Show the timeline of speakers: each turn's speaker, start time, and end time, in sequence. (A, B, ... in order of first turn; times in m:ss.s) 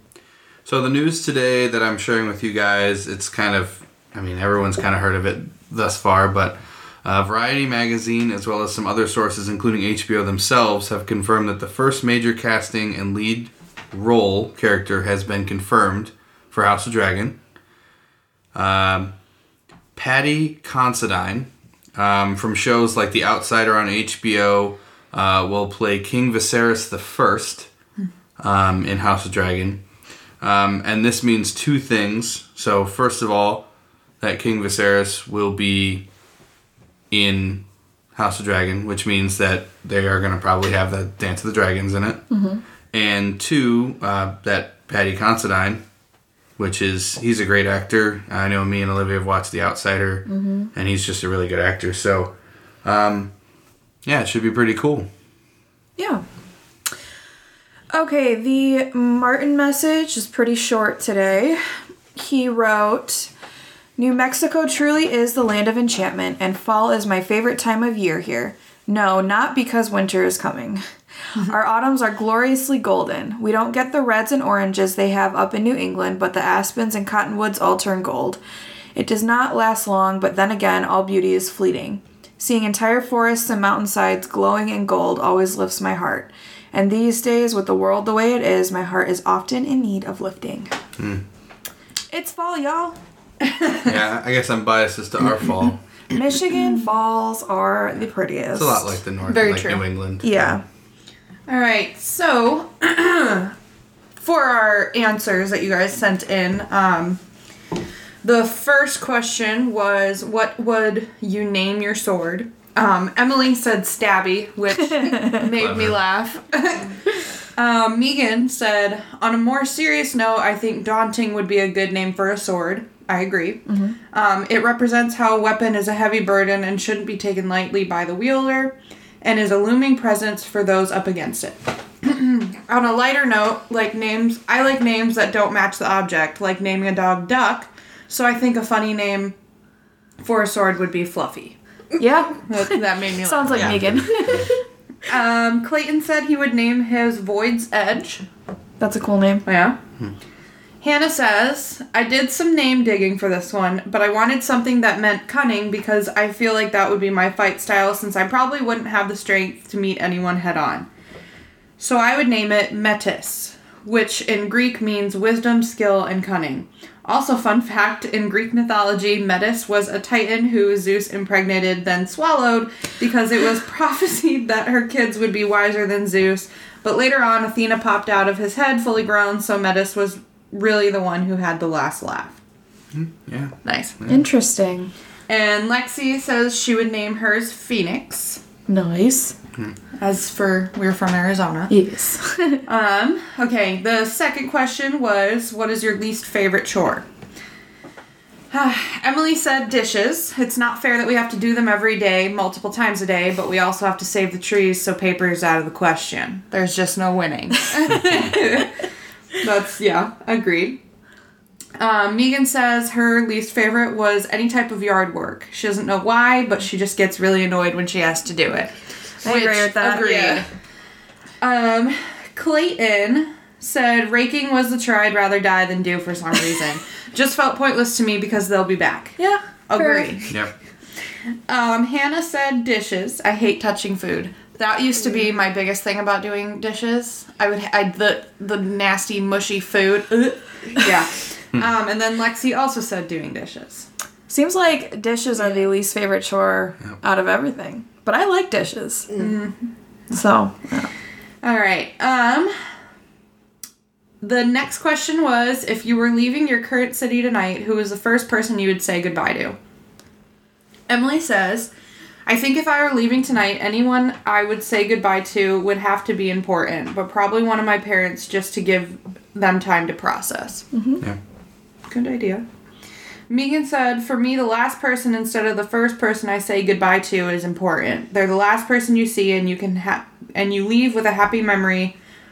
0:00.6-0:17.4 A
0:18.5-0:19.1 A
0:20.0-0:27.7 A
0:28.4-0:29.8 A
0:30.4-0:33.6 A
0:34.2-0:36.0 A
0:37.1-0:37.6 A
0:38.1-0:42.2 A
0:42.3-0:42.6 B
0:42.9-0:45.8 A
0:46.6-0:52.3 A
0:50.3-0:50.7 B
0:52.8-0:53.3 A
0:54.0-0:55.1 A
0:56.0-0:56.2 B
0:57.9-1:01.6 B
1:02.1-1:03.3 B
1:04.0-1:10.8 B
1:11.4-1:18.4 B
1:18.9-1:30.8 B
1:31.0-1:31.2 A
1:32.1-1:33.0 B
1:33.4-1:33.9 C
1:33.8-1:35.8 A
1:36.1-1:39.0 B
1:38.5-1:40.5 A
1:39.2-1:39.8 C
1:40.2-1:40.6 B
1:41.5-1:43.5 C
1:44.2-1:47.2 C
1:48.2-1:57.0 C
1:54.9-1:55.4 B
1:55.5-1:56.0 A
1:57.6-2:19.4 C
2:03.7-2:04.0 B
2:20.2-2:21.6 C
2:22.0-2:24.6 B
2:22.5-2:23.8 C
2:23.5-2:24.5 A
2:25.0-2:28.2 C
2:28.8-2:29.4 B
2:29.4-2:29.8 C
2:30.8-2:40.9 C
2:41.8-3:02.4 C
3:02.9-3:04.2 A
3:03.6-3:04.0 C
3:04.1-3:04.9 B
3:05.3-3:08.4 C
3:08.7-3:09.3 B
3:10.0-3:11.7 C
3:11.7-3:12.6 B
3:12.6-3:17.0 C
3:18.5-3:28.8 C
3:29.4-3:30.8 C
3:31.8-3:40.4 C
3:39.2-3:40.4 B
3:41.4-3:50.3 C
3:49.2-3:50.2 B
3:51.5-4:03.9 C
4:04.3-4:09.1 B
4:09.2-4:09.7 C
4:10.1-4:10.9 B
4:11.4-4:12.5 C
4:14.2-4:19.6 C
4:20.9-4:21.7 C
4:22.2-4:30.6 C
4:30.7-4:31.0 B
4:31.9-4:32.4 C
4:33.3-4:42.0 C